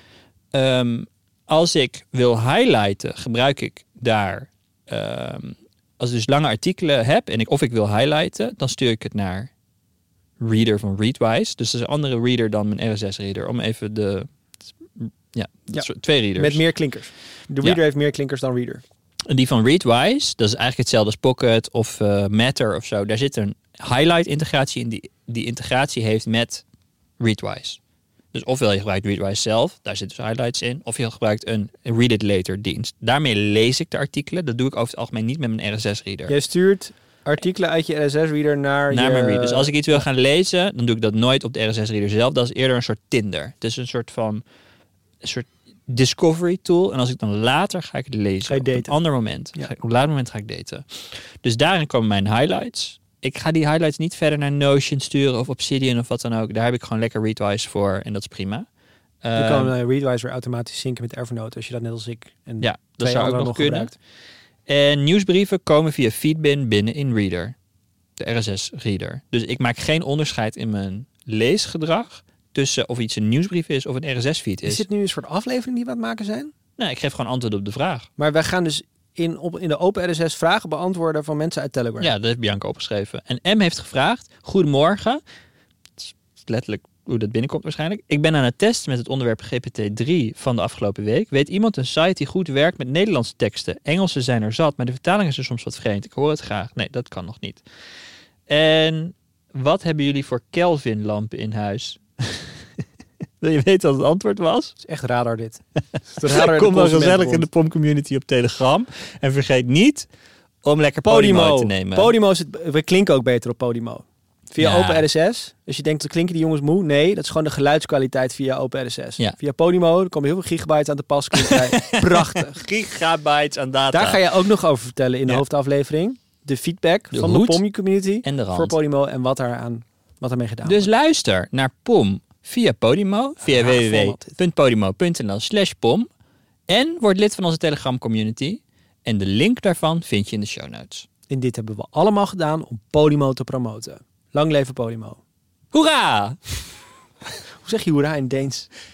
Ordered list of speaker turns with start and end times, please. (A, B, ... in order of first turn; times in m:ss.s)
0:00.5-0:09.5 A
0:10.4-0:14.3 A
0:15.0-0:16.6 A
0:15.7-0:18.8 B
0:19.3-0:26.6 A
0:27.2-0:27.8 A
0:28.3-0:36.3 A
0:36.3-0:39.8 B
0:38.9-0:44.4 A
0:45.2-0:58.7 A
0:48.4-0:48.9 B
0:59.2-0:59.7 A
0:59.4-1:03.9 B
1:02.6-1:03.9 A
1:04.7-1:07.6 A
1:08.2-1:14.9 A
1:14.6-1:16.5 B
1:16.8-1:18.1 A
1:18.2-1:22.1 B
1:22.0-1:25.2 A
1:26.0-1:37.6 A
1:38.5-1:42.7 A
1:43.4-1:44.8 A
1:44.8-1:47.4 B
1:46.2-1:50.1 A
1:50.6-1:52.1 A
1:51.0-2:02.6 B
1:54.6-1:55.0 A
2:01.4-2:04.2 A
2:03.9-2:10.9 B
2:07.1-2:07.6 A
2:08.2-2:08.8 A
2:10.6-2:16.1 A
2:13.4-2:14.4 B
2:16.7-2:21.1 A
2:21.3-2:25.2 B
2:25.7-2:26.4 A
2:27.6-2:28.7 B